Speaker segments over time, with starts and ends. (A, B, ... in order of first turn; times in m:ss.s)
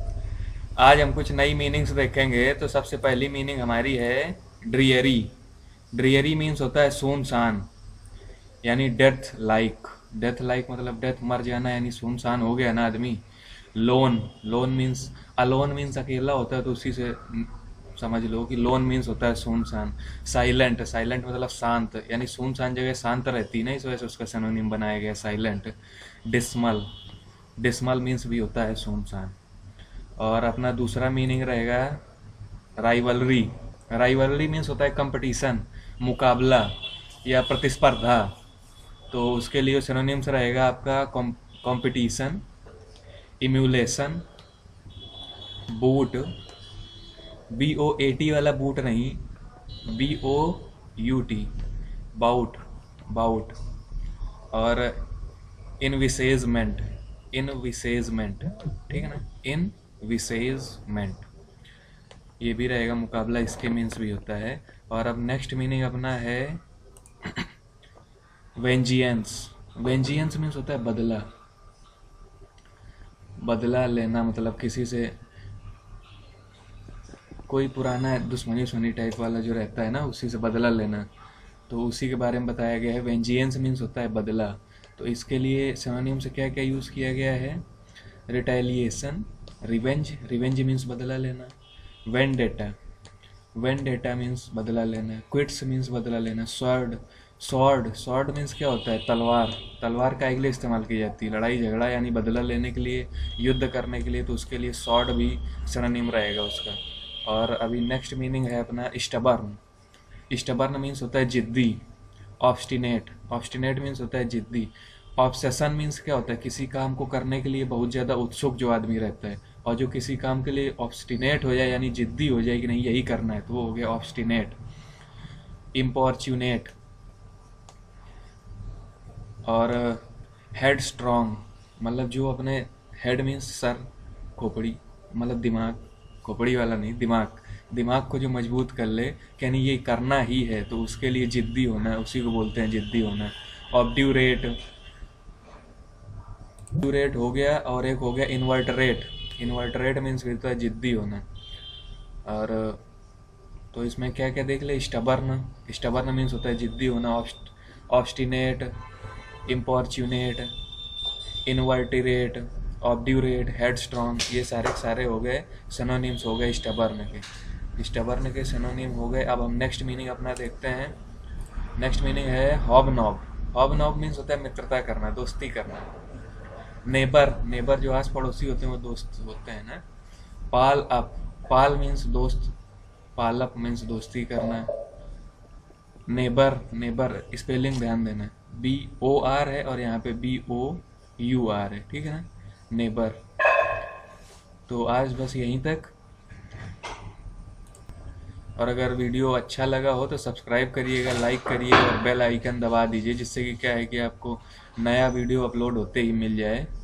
0:00.8-0:05.3 A
0:05.9-0:07.7 A
0:08.6-0:13.2 A
0:13.7-0:25.7 A
0:26.3-0:26.9 A
0:27.6-0:29.4 A
0:30.2-0:32.0 A
0:32.8-0:36.7 A
0:37.2-0:38.3 A
0:39.1-0:42.4 A
0:43.4-0:44.2 A
0:45.7-0:46.3 A
0:47.5-0:49.2 A
0:49.9-0:51.6 A
0:52.2-0:53.6 A
0:54.5-0:55.0 A
0:55.8-1:01.3 A
1:02.4-1:06.6 A
1:08.6-1:11.3 A
1:13.4-1:15.2 A
1:17.5-1:21.1 A
1:21.7-1:27.6 A
1:28.3-1:31.5 A
1:32.1-1:32.8 A
1:33.6-1:49.6 A
1:50.3-1:51.8 A
1:52.4-2:04.6 A
2:05.7-2:06.7 A
2:09.5-2:13.8 A
2:14.4-2:24.6 A
2:26.8-2:31.2 A
2:32.3-2:32.8 A
2:33.7-2:38.7 A
2:39.5-2:40.5 A
2:41.5-2:47.2 A
2:47.8-2:51.0 A
2:51.8-2:55.9 A
2:56.8-2:59.8 A
3:00.5-3:02.5 A
3:03.2-3:04.7 A
3:06.1-3:13.2 A
3:14.7-3:15.9 A
3:18.6-3:26.7 A